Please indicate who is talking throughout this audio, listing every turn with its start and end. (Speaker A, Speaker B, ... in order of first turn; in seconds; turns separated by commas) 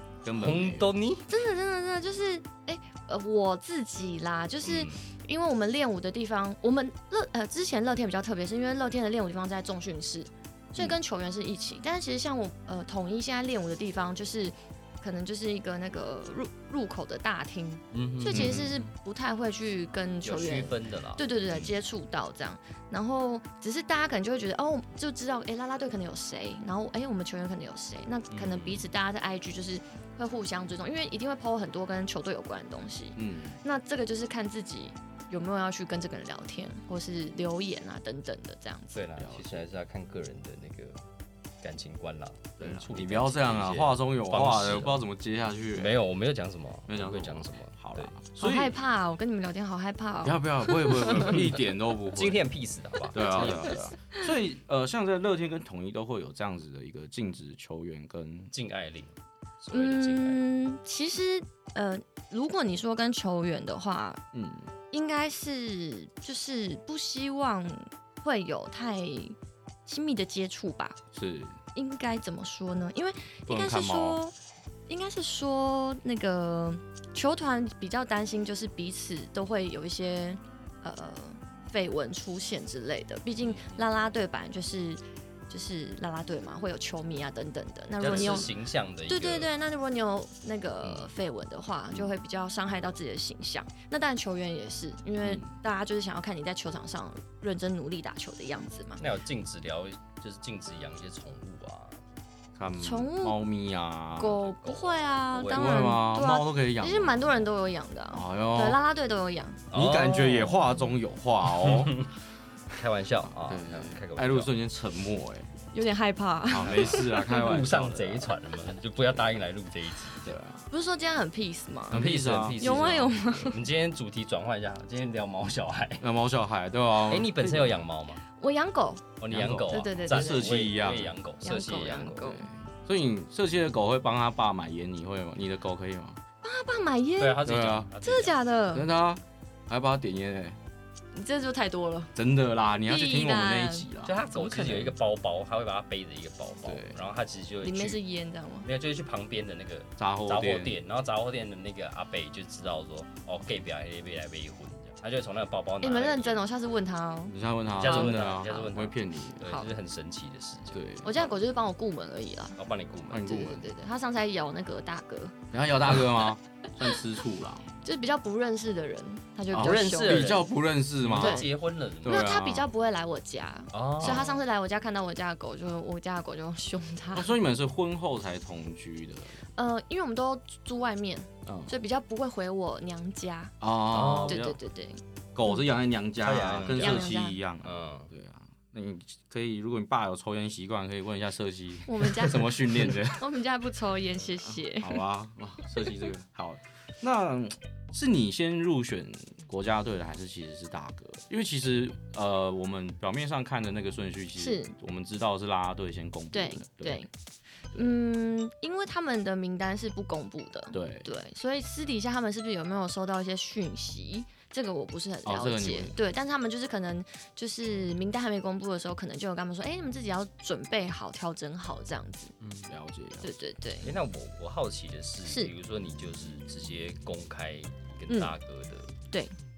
Speaker A: 0.2-0.9, Speaker B: 0.3-1.2, Speaker C: 1.3-39.0, Speaker B: 4.6-5.0, Speaker B: 17.9-18.7, Speaker A: 18.3-18.9, Speaker B: 20.2-21.7, Speaker B: 28.3-28.8, Speaker A: 33.2-33.6, Speaker B: 38.9-41.0, Speaker A: 39.2-39.6, Speaker B: 41.6-45.0, Speaker A: 42.6-46.0, Speaker B: 45.7-48.1, Speaker A: 46.9-48.7, Speaker C: 48.4-51.4, Speaker A: 50.2-52.4, Speaker B: 51.3-51.6, Speaker B: 52.1-53.8, Speaker A: 53.1-58.5, Speaker C: 53.2-54.2, Speaker B: 58.5-60.4, Speaker C: 59.7-64.2, Speaker A: 64.3-64.7, Speaker C: 64.9-71.0, Speaker A: 71.1-71.6, Speaker C: 71.7-74.3, Speaker A: 73.5-74.2, Speaker C: 74.9-88.5, Speaker B: 88.0-89.5, Speaker A: 88.0-88.5, Speaker C: 89.1-99.0, Speaker A: 95.2-95.5, Speaker B: 99.0-102.0, Speaker A: 102.5-104.4, Speaker C: 102.8-103.4, Speaker C: 104.2-109.6, Speaker B: 104.4-105.9, Speaker A: 105.5-107.3, Speaker A: 108.1-108.8, Speaker B: 109.7-110.7, Speaker A: 109.7-112.1, Speaker B: 111.4-112.1, Speaker B: 112.7-114.5, Speaker A: 113.3-115.5, Speaker C: 115.7-117.4, Speaker A: 116.5-118.3, Speaker B: 116.6-120.3, Speaker A: 120.2-120.7, Speaker C: 120.7-122.0, Speaker A: 121.9-122.9, Speaker B: 121.9-126.0, Speaker C: 122.6-123.6, Speaker A: 126.0-127.8, Speaker B: 127.0-128.2, Speaker C: 128.4-129.0, Speaker B: 129.2-132.4, Speaker A: 129.3-131.1, Speaker C: 129.7-130.5, Speaker C: 131.4-132.4, Speaker A: 132.2-136.2, Speaker C: 136.4-137.4, Speaker B: 137.2-138.4, Speaker A: 137.4-137.9, Speaker C: 138.0-138.9, Speaker A: 138.7-140.6, Speaker C: 141.1-142.1, Speaker A: 142.2-144.9, Speaker C: 142.9-144.8, Speaker B: 144.0-148.0, Speaker A: 146.6-147.0, Speaker C: 147.6-148.7, Speaker B: 148.6-156.4, Speaker A: 150.0-150.8, Speaker C: 155.8-158.2, Speaker A: 157.3-159.5, Speaker B: 157.7-160.8, Speaker A: 160.7-161.3, Speaker C: 161.0-162.6, Speaker B: 162.6-163.5, Speaker A: 163.1-163.7, Speaker C: 163.2-165.3, Speaker A: 165.5-167.7, Speaker C: 167.8-170.3, Speaker A: 169.5-171.5, Speaker B: 169.5-172.3, Speaker C: 171.2-171.5, Speaker A: 172.0-172.7, Speaker C: 172.0-177.3, Speaker B: 173.7-174.4, Speaker A: 174.0-174.3, Speaker A: 177.1-179.4, Speaker C: 179.6-183.5, Speaker A: 181.4-181.7, Speaker A: 183.6-184.6, Speaker B: 183.9-184.4, Speaker C: 184.2-185.6, Speaker A: 185.3-193.3, Speaker B: 186.2-188.1, Speaker C: 186.7-187.4, Speaker C: 191.9-195.0, Speaker A: 194.5-207.0, Speaker C: 204.4-204.7, Speaker C: 206.3-207.1, Speaker C: 207.8-222.3, Speaker A: 210.7-211.1, Speaker A: 215.2-215.9, Speaker B: 222.4-222.7, Speaker A: 222.7-223.3, Speaker C: 223.2-223.9, Speaker B: 223.8-228.9, Speaker C: 225.2-225.5